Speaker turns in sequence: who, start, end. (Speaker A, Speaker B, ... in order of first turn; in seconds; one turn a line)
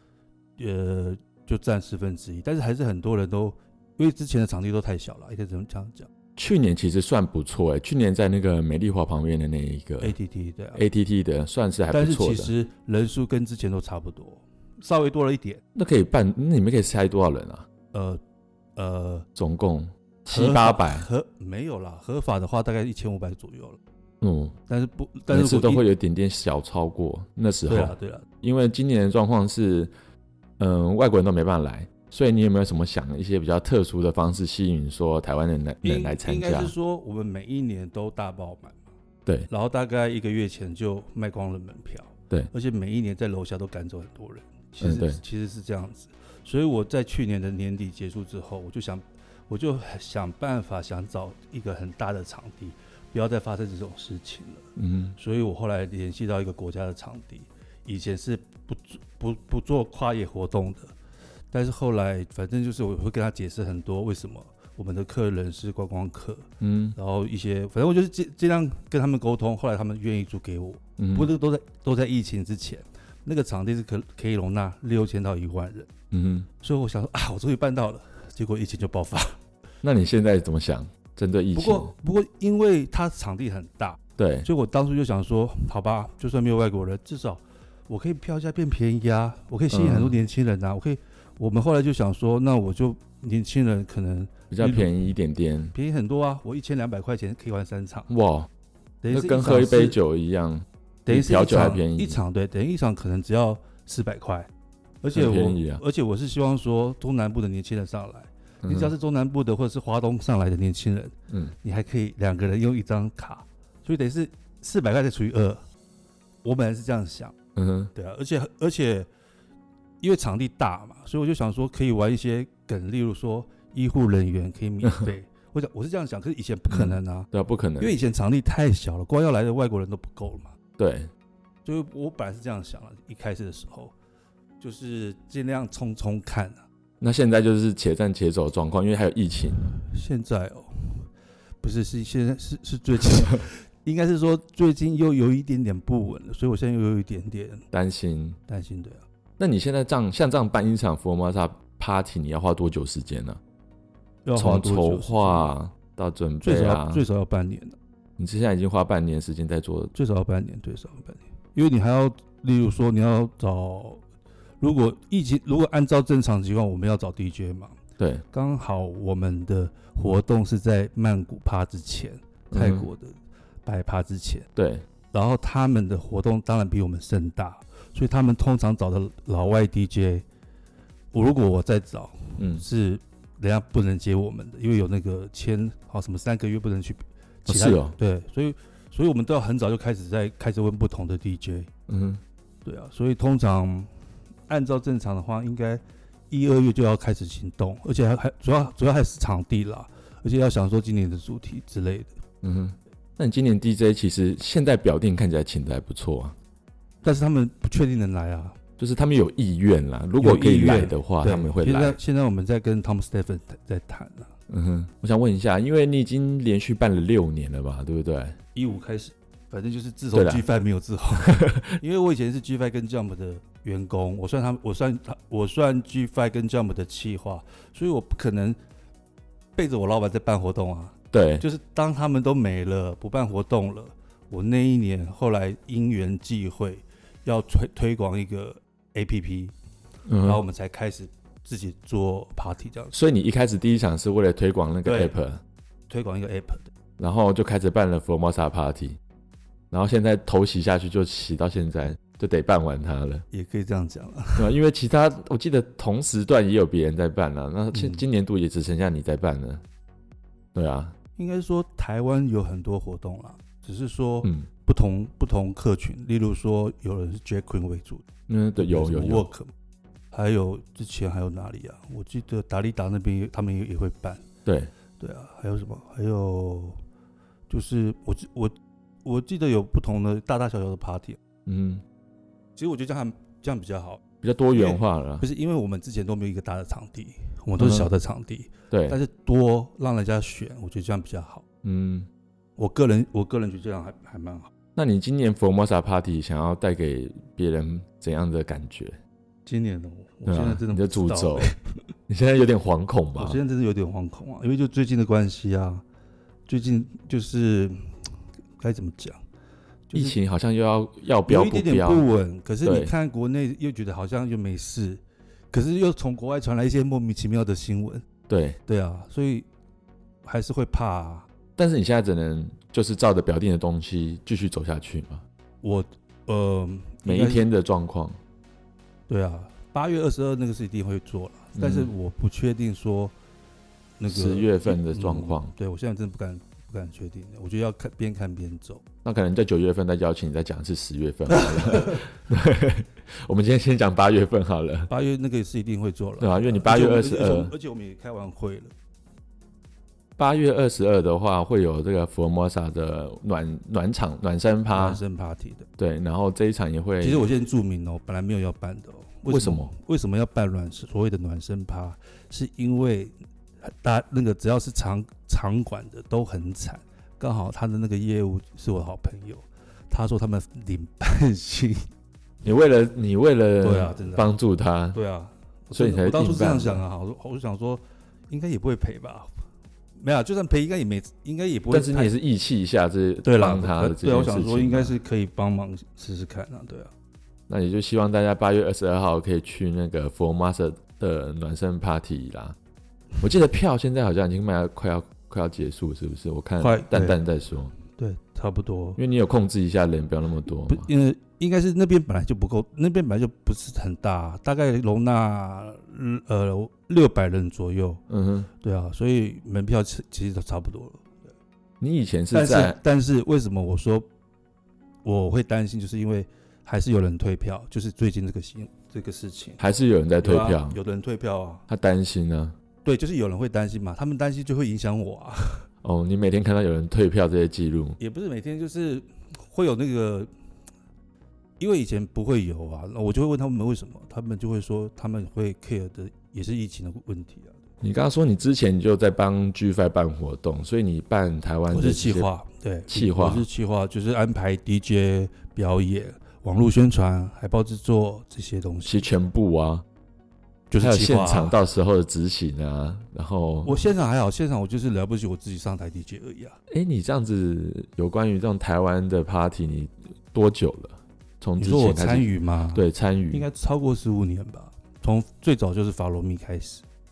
Speaker A: 0.6-6.1
Speaker B: 6.4-10.2
Speaker A: 10.0-10.8
Speaker B: 10.8-12.5
Speaker A: 11.9-15.6
Speaker B: 15.8-17.7
Speaker A: 17.9-18.2
Speaker A: 18.8-19.3
Speaker B: 19.4-21.1
Speaker A: 20.3-23.8
Speaker B: 24.2-24.6
Speaker A: 24.7-25.9
Speaker B: 25.3-29.9
Speaker A: 27.7-28.3
Speaker B: 30.6-36.7
Speaker A: 35.8-38.8
Speaker A: 39.5-60.9
Speaker B: 44.8-45.2
Speaker B: 54.8-55.1
Speaker A: 61.5-75.9
Speaker B: 66.6-67.0
Speaker B: 71.0-71.3
Speaker B: 76.1-76.5
Speaker A: 76.6-79.4
Speaker B: 79.8-81.9
Speaker A: 81.5-94.9
Speaker B: 84.2-84.5
Speaker B: 89.7-90.2
Speaker B: 94.5-95.7
Speaker A: 95.7-98.1
Speaker B: 98.1-98.5
Speaker A: 99.0-100.0
Speaker B: 99.1-102.2
Speaker A: 101.1-104.5
Speaker A: 105.0-115.6
Speaker B: 105.1-105.8
Speaker B: 108.6-108.9
Speaker A: 116.4-117.3
Speaker B: 117.5-117.9
Speaker A: 117.9-119.1
Speaker A: 120.0-127.3
Speaker B: 126.7-128.0
Speaker A: 127.8-130.5
Speaker B: 130.8-131.1
Speaker A: 131.7-133.9
Speaker A: 134.6-136.7
Speaker B: 137.0-139.7
Speaker A: 139.7-141.1
Speaker A: 141.6-147.6
Speaker B: 147.7-148.4
Speaker A: 148.5-149.0
Speaker B: 149.4-153.4
Speaker A: 154.2-155.5
Speaker B: 154.3-157.0
Speaker A: 156.4-157.8
Speaker B: 158.2-159.9
Speaker A: 159.9-164.0
Speaker A: 164.6-167.8
Speaker A: 168.3-174.5
Speaker B: 172.5-172.9
Speaker B: 174.6-174.8
Speaker A: 175.1-180.2
Speaker A: 181.1-191.7
Speaker B: 182.4-182.6
Speaker B: 187.5-187.9
Speaker B: 191.9-192.2
Speaker A: 192.7-193.9
Speaker A: 194.5-202.1
Speaker B: 202.4-206.4
Speaker A: 207.0-208.6
Speaker B: 208.8-212.0
Speaker A: 210.2-214.3
Speaker B: 214.5-218.4
Speaker A: 218.6-228.6
Speaker B: 220.1-220.4
Speaker B: 221.2-221.8
Speaker A: 229.6-239.6
Speaker B: 231.1-231.4
Speaker B: 240.1-240.4
Speaker A: 240.2-242.9
Speaker B: 242.9-245.4
Speaker A: 244.8-245.2
Speaker A: 245.9-246.7
Speaker B: 247.0-249.0
Speaker B: 249.7-253.2
Speaker A: 253.3-254.5
Speaker B: 254.4-259.6
Speaker A: 257.7-258.0
Speaker B: 260.6-260.9
Speaker A: 261.2-268.1
Speaker B: 268.3-269.3
Speaker A: 268.6-269.5
Speaker A: 270.1-274.2
Speaker A: 275.0-276.8
Speaker A: 277.5-278.5
Speaker A: 279.1-281.2
Speaker B: 281.5-281.8
Speaker A: 282.6-284.0
Speaker B: 284.2-285.2
Speaker A: 284.5-291.4
Speaker B: 287.6-287.9
Speaker B: 288.7-289.0
Speaker B: 291.6-292.1
Speaker A: 292.6-294.5
Speaker B: 294.8-299.0
Speaker A: 299.5-301.7
Speaker B: 300.3-301.5
Speaker B: 302.1-303.4
Speaker A: 303.2-305.8
Speaker A: 306.5-307.9
Speaker A: 308.6-309.2
Speaker A: 309.9-310.2
Speaker B: 309.9-312.1
Speaker A: 311.3-318.1
Speaker B: 312.6-312.9
Speaker B: 318.3-318.6
Speaker A: 318.7-319.5
Speaker A: 320.2-321.3
Speaker B: 321.6-325.2
Speaker A: 325.6-327.5
Speaker B: 327.0-328.2
Speaker A: 329.1-333.1
Speaker B: 331.6-331.9
Speaker A: 334.0-338.8
Speaker B: 334.1-335.5
Speaker B: 339.0-344.9
Speaker A: 341.3-342.0
Speaker A: 344.9-348.7
Speaker B: 346.2-347.5
Speaker B: 350.2-355.0
Speaker A: 354.7-355.7
Speaker B: 355.8-357.3
Speaker A: 357.0-371.9
Speaker B: 359.3-359.7
Speaker B: 372.4-375.0
Speaker A: 373.6-374.3
Speaker A: 374.9-379.3
Speaker B: 375.7-376.8
Speaker A: 380.0-382.1
Speaker B: 381.7-384.9
Speaker A: 383.2-386.9
Speaker B: 387.5-392.6
Speaker B: 393.2-397.7
Speaker A: 396.6-397.2
Speaker A: 398.0-399.0
Speaker B: 399.0-400.9
Speaker A: 400.7-408.0
Speaker B: 408.1-408.5
Speaker A: 408.6-411.3
Speaker B: 411.8-412.8
Speaker A: 412.3-414.1
Speaker A: 415.1-419.6
Speaker B: 419.6-420.8
Speaker A: 420.2-421.6
Speaker B: 421.7-422.6
Speaker A: 422.9-425.7
Speaker B: 425.8-428.0
Speaker A: 428.0-430.3
Speaker A: 431.6-437.6
Speaker B: 437.8-442.3
Speaker A: 441.7-449.1
Speaker B: 442.9-443.5
Speaker B: 448.9-449.8
Speaker A: 450.7-451.6
Speaker B: 450.8-453.8
Speaker A: 453.6-456.6
Speaker B: 456.7-463.5
Speaker A: 461.6-466.8